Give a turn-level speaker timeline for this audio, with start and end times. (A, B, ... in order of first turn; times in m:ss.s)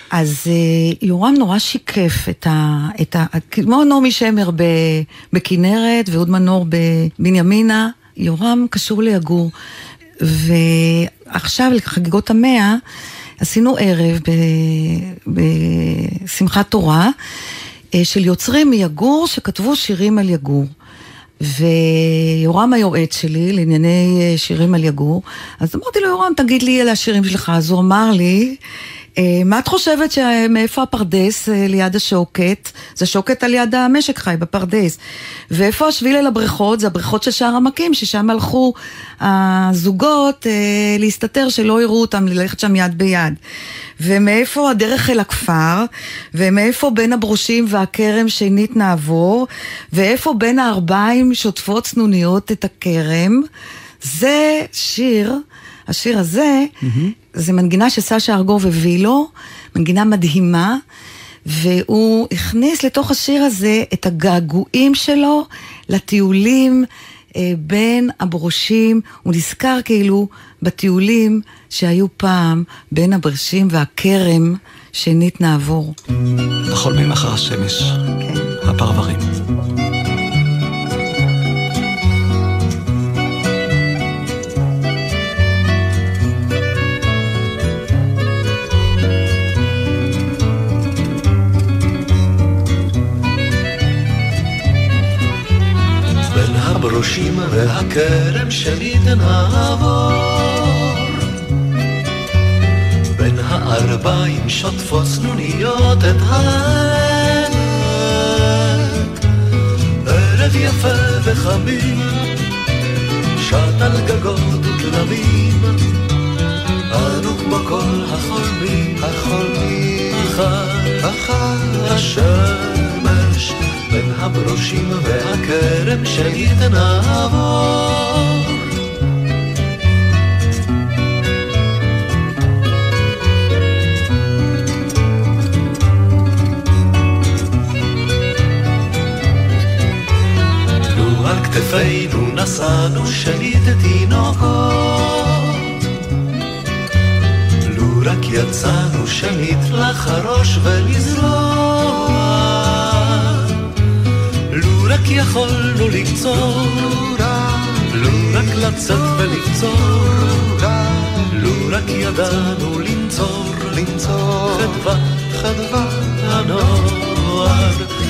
0:00.1-0:09.5 A
0:10.2-0:12.8 A
0:13.4-0:17.1 A
0:17.9-0:20.7 A
0:21.4-0:28.6 A
0:29.2-0:35.0 A
0:35.5-0:43.4 A
0:44.0-0:53.4 A
0:54.0-1:00.8 A
0:56.8-0:57.1 B
1:01.5-1:15.9 A
1:16.7-1:18.0 B
1:18.2-1:18.5 A
1:18.6-1:19.3 B
1:36.6-1:40.0 C
1:43.3-1:46.8 C
1:50.2-1:52.0 C
1:53.5-1:55.7 C
1:57.1-2:07.8 C
2:21.0-2:25.1 C
2:27.7-2:32.2 C
2:34.6-2:45.0 C
2:45.5-2:47.8 C